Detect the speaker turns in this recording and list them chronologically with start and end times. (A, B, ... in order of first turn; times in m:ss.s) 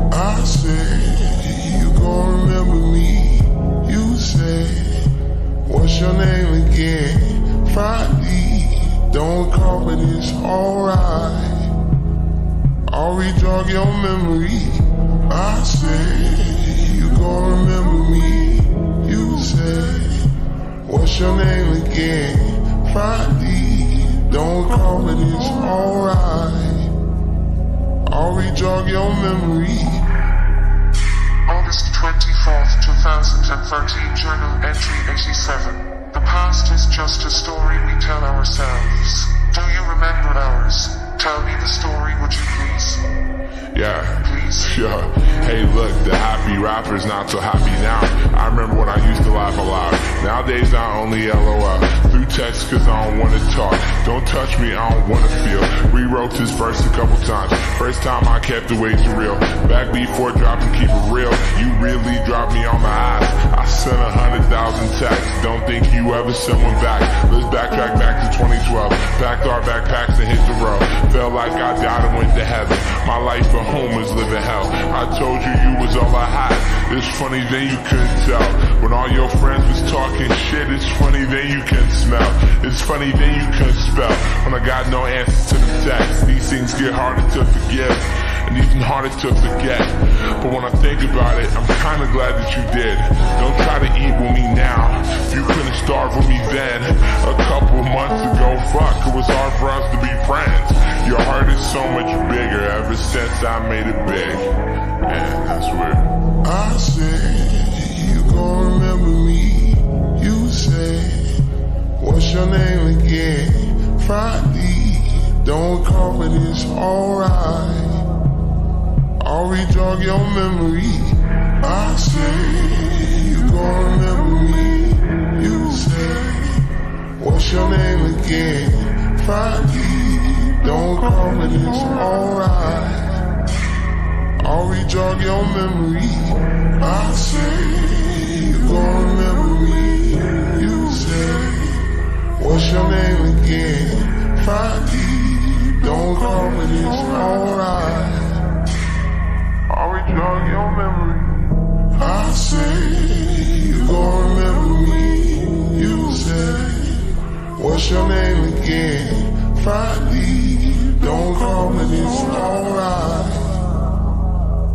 0:00.1-0:11.8 A
0:12.9-0:27.0 A
0:28.1-0:30.1 A
0:31.5-0:43.1 B
0:43.7-1:46.1 C
0:44.2-0:44.7 B
1:46.4-1:58.1 A
1:59.2-2:13.3 A
2:14.4-2:28.6 A
2:29.7-2:30.1 C
2:30.0-2:43.8 A